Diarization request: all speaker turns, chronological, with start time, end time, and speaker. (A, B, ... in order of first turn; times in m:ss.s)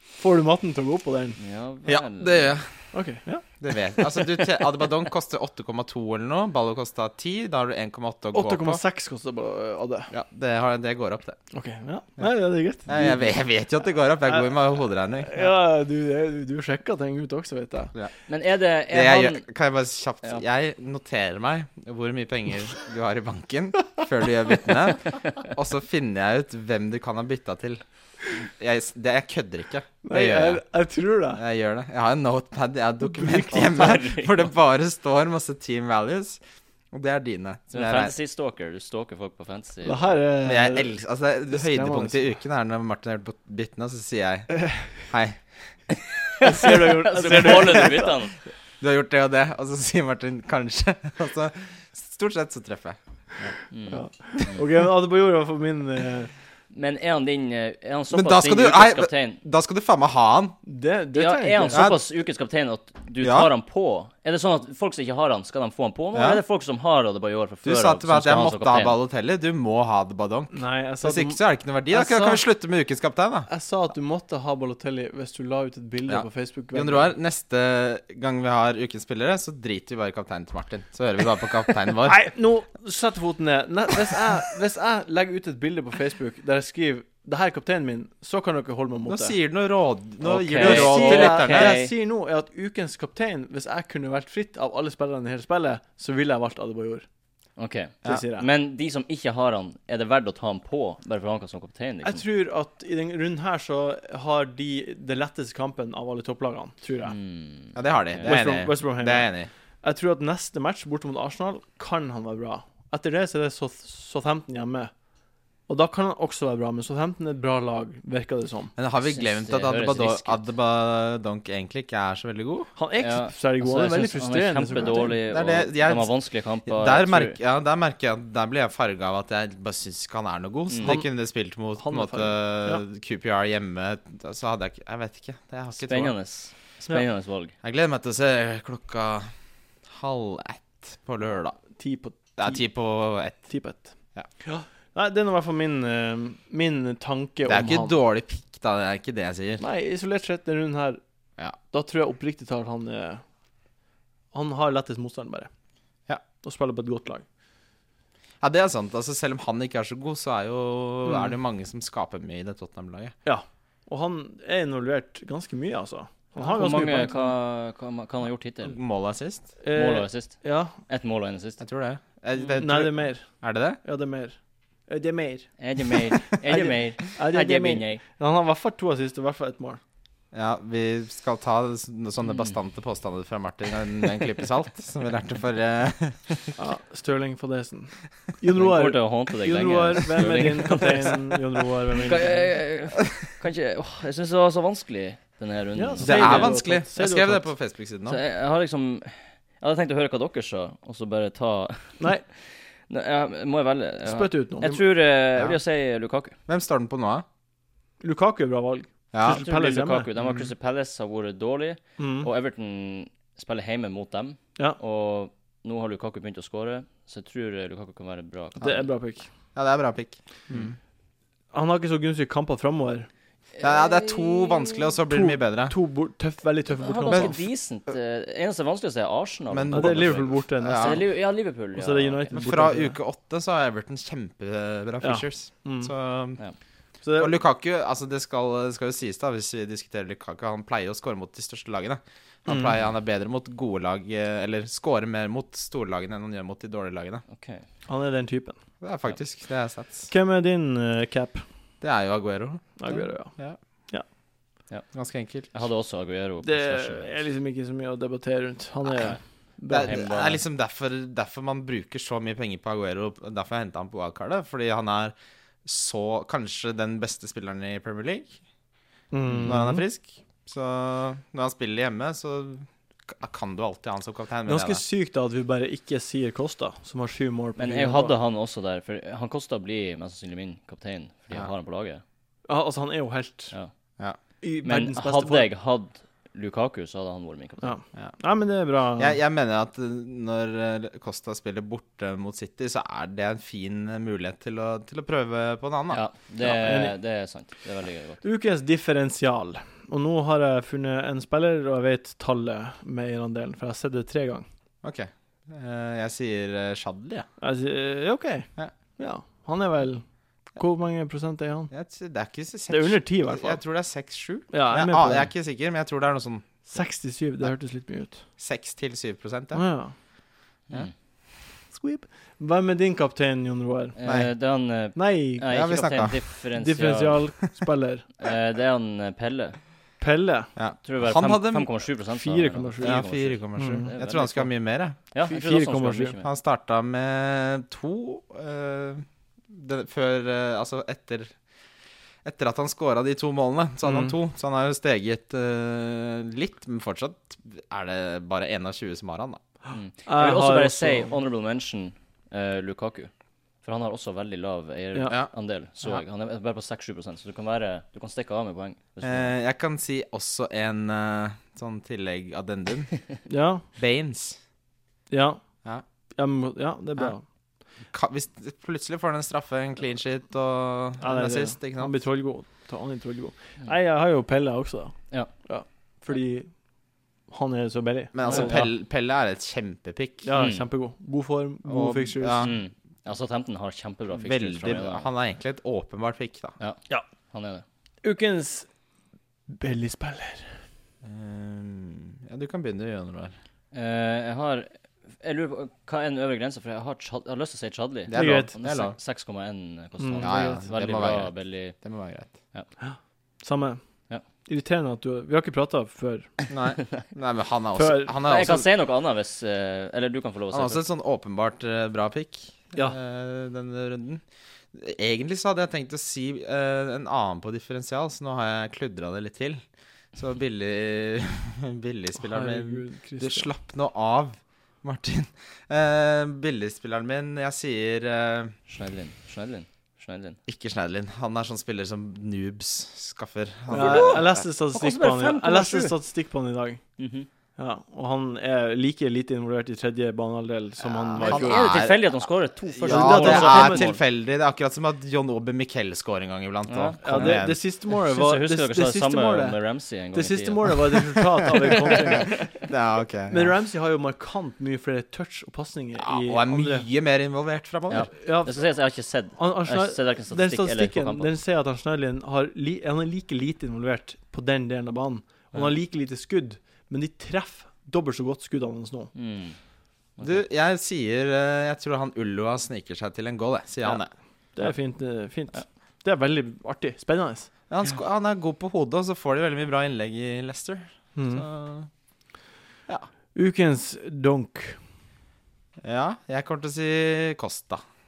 0:00.2-0:01.4 A
0:01.4-0:02.5 B
0:01.8-0:02.7 C
0:02.9-0:03.4 A
0:03.6-0:08.8 C
0:04.0-0:04.4 A
0:08.3-0:10.1 A
0:10.1-0:11.4 C
0:11.5-0:13.4 A
0:12.9-0:15.4 C
0:15.2-0:17.9 A
0:18.3-0:19.4 B
0:18.9-0:30.6 C
0:30.0-0:31.4 A
0:31.4-0:36.4 C
0:33.0-0:33.9 A
0:33.5-0:34.4 B
0:36.9-0:38.1 C
0:37.7-0:40.2 B
0:39.8-0:40.9 A
0:40.4-0:45.4 C
0:41.5-0:42.3 A
0:44.6-0:44.9 A
0:46.4-0:48.4 B
0:46.4-0:48.1 A
0:48.8-0:53.5 C
0:53.7-0:54.6 B
0:53.9-0:56.3 A
0:56.7-0:59.4 B
0:58.1-1:00.6 C
1:00.6-1:01.9 A
1:01.1-1:08.9 B
1:01.7-1:02.0 C
1:03.2-1:03.5 C
1:06.1-1:06.4 C
1:07.6-1:13.5 C
1:10.5-1:12.4 A
1:13.5-1:17.1 A
1:16.1-1:22.2 C
1:22.0-1:29.4 A
1:29.1-1:31.8 C
1:30.2-1:31.9 B
1:30.6-1:37.0 A
1:37.6-1:42.2 B
1:38.0-1:38.5 A
1:42.0-1:47.1 A
1:47.1-1:48.3 B
1:47.7-1:49.5 C
1:48.2-1:54.9 A
1:55.7-1:58.7 A
1:58.8-2:02.7 C
1:59.0-2:00.4 B
2:02.8-2:05.2 A
2:03.0-2:07.4 B
2:05.3-2:06.1 C
2:06.7-2:16.1 C
2:10.7-2:11.0 B
2:11.8-2:12.8 A
2:15.8-2:17.5 B
2:17.6-2:19.3 C
2:19.9-2:21.6 C
2:21.8-2:22.6 A
2:22.4-2:23.4 C
2:23.4-2:28.0 A
2:27.5-2:29.6 C
2:29.6-2:31.0 A
2:31.7-2:33.2 A
2:34.3-2:35.5 A
2:36.4-2:37.2 A
2:38.4-2:43.1 C
2:41.0-2:41.3 A
2:43.2-2:47.3 A
2:46.4-2:48.8 B
2:48.6-2:49.5 C
2:49.6-2:50.8 A
2:49.7-2:51.6 B
2:51.6-2:53.8 C
2:52.6-2:53.3 A
2:53.8-2:54.4 A
2:54.9-2:55.5 A
2:55.6-2:58.0 B
2:56.3-2:59.8 A
3:00.3-3:06.5 C
3:06.6-3:12.5 A
3:08.6-3:11.4 B
3:12.0-3:16.5 B
3:15.7-3:17.5 A
3:16.0-3:18.2 C
3:18.0-3:26.4 B
3:24.0-3:24.8 A
3:26.5-3:27.2 C
3:28.0-3:30.1 A
3:29.1-3:29.4 C
3:29.2-3:38.9 B
3:32.0-3:32.3 A
3:38.6-3:39.3 A
3:39.5-3:40.7 C
3:41.5-3:43.1 A
3:43.6-3:45.0 B
3:43.6-3:45.7 C
3:45.1-3:47.4 A
3:46.7-3:52.3 B
3:49.5-3:51.0 C
3:49.7-3:51.0 A
3:51.7-3:53.0 A
3:52.3-3:56.4 C
3:55.0-3:55.9 A
3:57.0-3:57.4 A
3:57.2-4:07.2 C
4:02.5-4:02.7 A
4:07.3-4:07.6 B
4:07.9-4:08.6 A
4:08.8-4:10.1 C
4:10.1-4:11.4 A
4:11.8-4:13.6 C
4:12.8-4:13.4 A
4:14.9-4:15.5 C
4:15.5-4:17.1 B
4:16.4-4:20.0 A
4:19.7-4:20.4 B
4:19.7-4:25.1 C
4:25.6-4:28.3 C
4:29.1-4:29.8 A
4:29.3-4:29.6 B
4:29.4-4:34.8 C
4:34.4-4:38.2 A
4:37.6-4:42.0 B
4:42.5-4:43.5 A
4:44.4-4:45.5 A
4:44.6-4:47.8 B
4:47.6-4:49.2 A
4:49.0-4:56.0 C
4:55.9-4:58.2 B
4:56.4-4:56.9 A
4:58.2-5:04.4 A
5:04.8-5:07.3 C
5:07.4-5:11.7 A
5:11.7-5:16.5 C
5:12.7-5:13.6 A
5:14.5-5:15.3 A
5:16.6-5:18.2 A
5:18.4-5:19.6 C
5:19.5-5:19.9 A
5:21.7-5:23.9 A
5:24.0-5:27.2 B
5:24.0-5:24.3 C
5:24.9-5:25.5 A
5:25.5-5:26.2 C
5:26.5-5:28.0 A
5:28.2-5:29.6 B
5:30.0-5:30.5 A
5:30.6-5:31.7 C
5:30.8-5:34.5 B
5:32.1-5:33.0 A
5:32.8-5:35.0 C
5:33.6-5:33.9 A
5:35.1-5:36.3 B
5:35.2-5:36.2 A
5:36.2-5:41.3 C
5:42.2-5:49.4 C
5:43.8-5:44.2 A
5:49.7-5:53.1 B
5:50.0-5:51.1 A
5:53.6-5:59.3 B
5:59.0-6:02.9 C
6:03.2-6:03.6 A
6:03.8-6:04.4 C
6:05.1-6:05.4 A
6:06.2-6:07.2 A
6:07.9-6:11.9 C
6:11.0-6:16.5 A
6:17.3-6:18.6 A
6:18.1-6:20.3 C
6:18.2-6:18.6 B
6:20.2-6:22.5 A
6:20.3-6:20.7 B
6:21.7-6:22.6 C
6:22.4-6:25.1 B
6:24.1-6:26.6 C
6:26.6-6:27.6 B
6:28.0-6:28.7 A
6:29.5-6:30.6 A
6:31.0-6:33.3 C
6:33.7-6:41.8 B
6:38.1-6:39.0 C
6:38.1-6:38.5 A
6:40.0-6:40.7 A
6:40.2-6:42.3 C
6:42.8-6:43.8 A
6:44.5-6:46.3 A
6:46.5-6:48.7 C
6:47.7-6:48.1 A
6:48.2-6:50.8 B
6:50.5-6:54.2 C
6:54.7-6:59.6 C
7:00.1-7:08.5 C
7:02.2-7:03.5 A
7:08.7-7:10.4 B
7:10.5-7:14.4 C
7:13.7-7:16.8 A
7:13.7-7:15.9 B
7:17.0-7:17.3 B
7:17.6-7:21.7 A
7:21.2-7:22.1 C
7:21.2-7:24.0 B
7:22.7-7:27.6 C
7:22.8-7:23.9 A
7:26.7-7:32.3 B
7:27.0-7:29.6 A
7:30.1-7:32.4 A
7:32.6-7:33.5 C
7:33.3-7:36.9 A
7:36.0-7:38.1 C
7:37.9-7:41.3 B
7:38.2-7:38.6 A
7:39.4-7:49.1 A
7:49.1-7:49.6 B
7:50.2-7:50.4 B
7:50.2-7:54.1 C
7:54.6-7:57.5 A
7:57.7-8:01.9 C
8:01.1-8:01.4 A
8:03.3-8:04.8 A
8:05.8-8:07.8 C